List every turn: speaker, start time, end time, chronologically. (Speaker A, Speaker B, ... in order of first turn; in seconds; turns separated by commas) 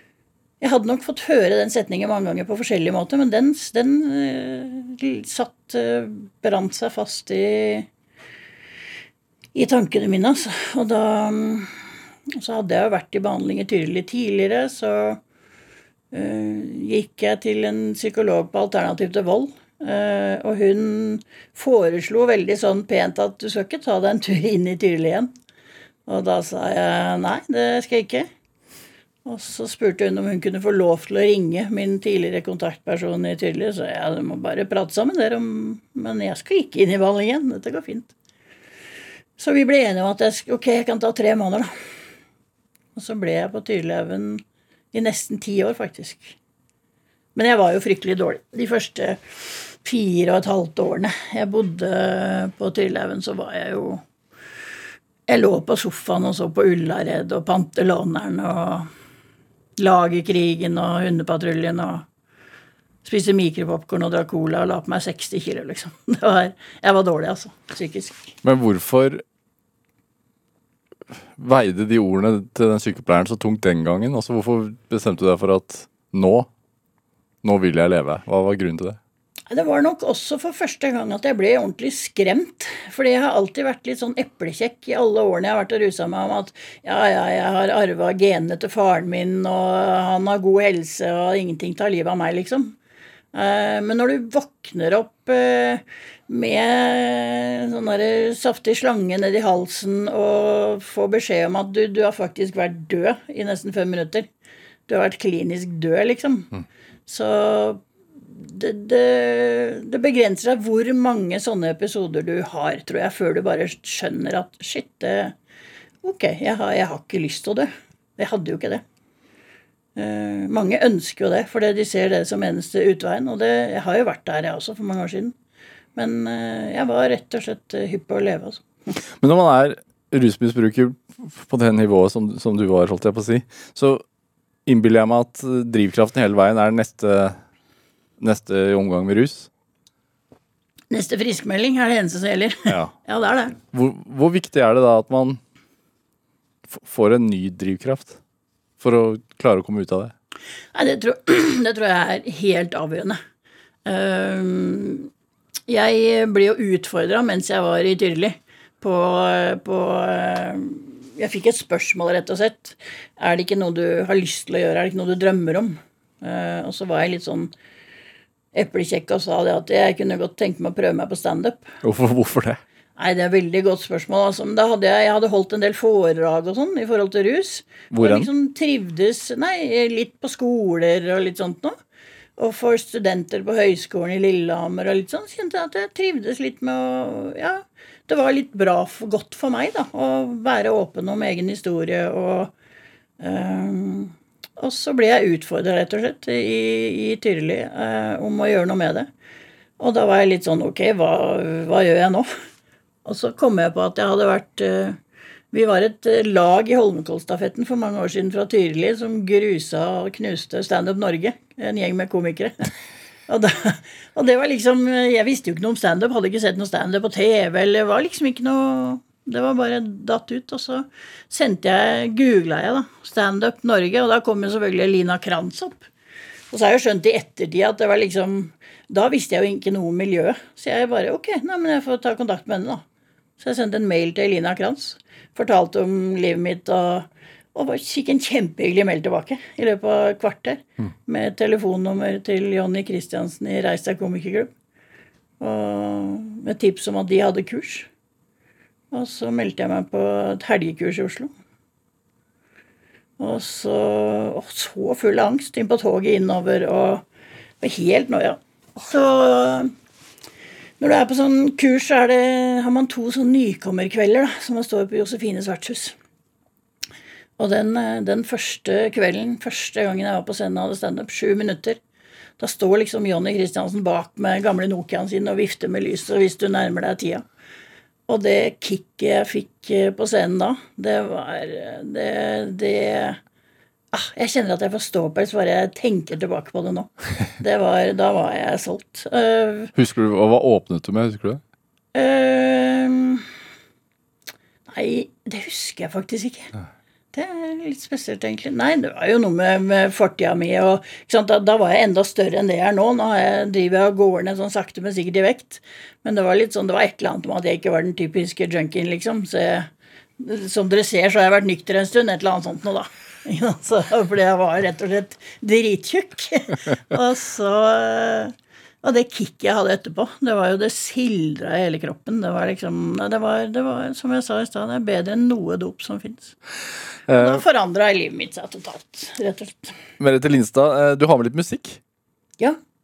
Speaker A: 0.6-7.9, Speaker A: 9.5-11.7, Speaker A: 12.3-15.2, Speaker A: 16.1-25.3, Speaker A: 26.1-28.3, Speaker A: 29.2-38.1, Speaker A: 39.4-41.7, Speaker A: 43.0-46.4, Speaker A: 47.4-54.0, Speaker A: 55.3-58.9, Speaker A: 59.8-62.0, Speaker A: 63.0-68.3, Speaker B: 68.4-69.2, Speaker B: 71.4-76.5, Speaker B: 77.4-79.0, Speaker A: 79.5-92.8, Speaker A: 93.3-104.3, Speaker A: 104.9-106.5, Speaker A: 107.1-115.3, Speaker A: 116.0-118.8, Speaker A: 120.0-125.3, Speaker A: 126.0-128.7, Speaker B: 129.2-134.0, Speaker B: 134.7-137.4, Speaker B: 138.2-139.5, Speaker A: 140.9-143.6, Speaker B: 143.7-145.4, Speaker B: 146.7-148.2, Speaker B: 148.8-150.1, Speaker A: 150.7-153.2, Speaker A: 153.9-155.1, Speaker A: 155.7-167.5, Speaker A: 168.5-171.7, Speaker B: 171.8-172.6, Speaker A: 173.0-181.8, Speaker B: 177.9-178.3, Speaker A: 182.4-192.5, Speaker A: 193.2-199.1, Speaker A: 199.8-202.3, Speaker A: 203.0-205.0, Speaker A: 205.5-212.7, Speaker A: 213.3-225.8, Speaker A: 226.5-232.8, Speaker A: 233.4-244.5, Speaker A: 245.4-247.9, Speaker A: 248.9-251.3, Speaker A: 253.2-257.1, Speaker A: 257.6-259.7, Speaker A: 260.8-265.9, Speaker A: 267.4-271.8, Speaker A: 272.4-277.2, Speaker A: 278.1-283.2, Speaker A: 283.9-289.7, Speaker B: 289.7-291.4, Speaker A: 291.9-293.2, Speaker A: 294.7-296.5, Speaker A: 297.1-309.7, Speaker A: 310.2-326.4, Speaker B: 327.1-327.4, Speaker A: 327.1-329.8, Speaker B: 330.0-331.8